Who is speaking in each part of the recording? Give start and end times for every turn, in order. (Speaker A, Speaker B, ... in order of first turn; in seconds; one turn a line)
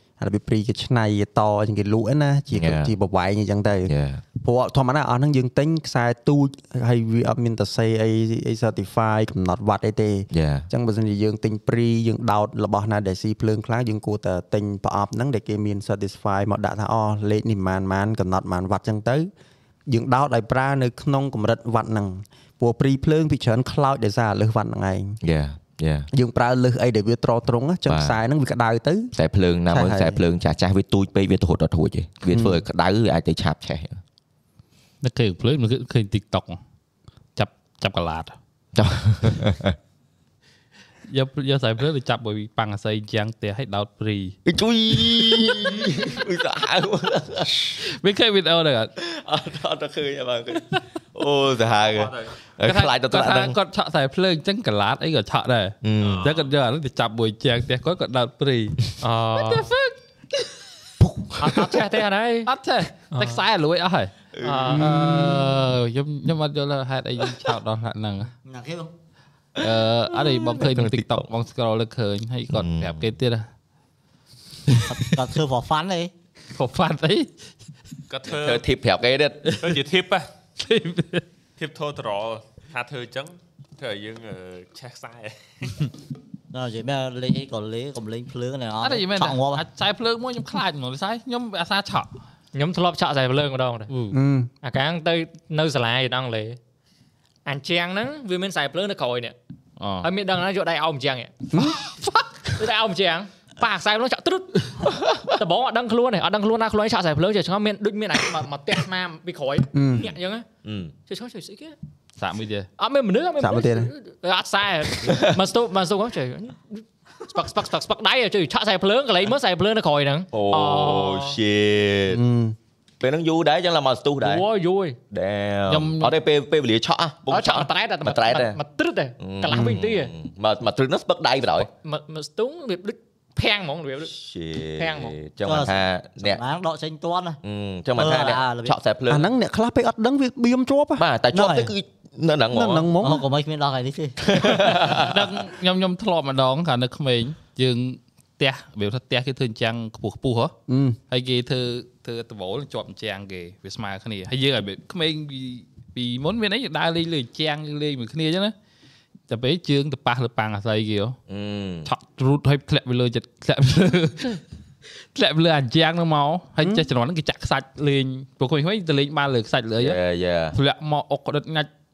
Speaker A: 0.2-19.3
Speaker B: 2.5-2.9
Speaker B: 3.9-4.2
Speaker B: 10.3-10.7
Speaker A: 19.9-25.2
Speaker B: 25.2-26.1
Speaker A: 26.1-29.1
Speaker B: 27.9-28.2
Speaker B: 29.1-34.0
Speaker A: 29.7-30.2
Speaker A: 32.3-32.6
Speaker C: 35.0-36.6
Speaker C: 37.4-38.3
Speaker B: 38.7-39.8
Speaker C: 41.1-44.3
Speaker B: 44.5-47.8
Speaker C: 47.8-48.9
Speaker B: 49.0-53.5
Speaker C: 52.6-58.8
Speaker B: 55.8-56.3
Speaker D: 59.0-59.7
Speaker C: 59.4-60.0
Speaker B: 61.0-61.7
Speaker D: 61.4-62.5
Speaker C: 62.5-64.1
Speaker D: 63.1-63.4
Speaker B: 64.3-64.8
Speaker D: 64.4-65.5
Speaker C: 64.7-68.3
Speaker A: 64.8-65.3
Speaker E: 68.4-68.9
Speaker C: 69.6-73.5
Speaker B: 70.3-71.2
Speaker B: 72.5-73.1
Speaker C: 74.7-74.9
Speaker E: 74.8-76.1
Speaker C: 76.5-77.3
Speaker F: 78.1-78.6
Speaker B: 78.3-79.5
Speaker F: 79.6-80.3
Speaker C: 80.6-81.2
Speaker F: 81.6-85.9
Speaker E: 86.5-89.6
Speaker C: 88.8-92.1
Speaker D: 92.5-93.9
Speaker C: 93.9-94.2
Speaker A: 94.1-94.5
Speaker D: 94.6-96.6
Speaker D: 97.5-99.3
Speaker C: 99.8-100.1
Speaker D: 100.0-101.6
Speaker D: 102.5-110.5
Speaker A: 109.7-110.1
Speaker B: 110.6-110.9
Speaker D: 111.1-111.7
Speaker C: 112.2-112.7
Speaker D: 112.8-121.4
Speaker A: 113.4-113.9
Speaker B: 115.0-115.4
Speaker B: 120.3-122.2
Speaker A: 122.1-122.5
Speaker B: 123.0-124.4
Speaker D: 124.2-125.0
Speaker B: 125.1-128.6
Speaker C: 125.7-126.1
Speaker D: 127.3-130.1
Speaker B: 129.2-131.7
Speaker A: 129.5-129.8
Speaker D: 131.6-134.1
Speaker B: 134.1-136.4
Speaker D: 134.8-135.2
Speaker E: 135.4-137.4
Speaker B: 137.4-139.3
Speaker E: 137.9-138.7
Speaker A: 139.1-141.0
Speaker B: 141.0-142.9
Speaker E: 141.3-141.7
Speaker A: 142.5-143.2
Speaker E: 143.0-144.2
Speaker B: 144.2-145.2
Speaker C: 145.0-150.5
Speaker A: 150.7-151.0
Speaker C: 151.1-158.5
Speaker C: 159.3-161.2
Speaker B: 161.3-161.9
Speaker C: 161.8-164.4
Speaker C: 165.1-170.0
Speaker B: 169.8-170.6
Speaker C: 170.5-171.7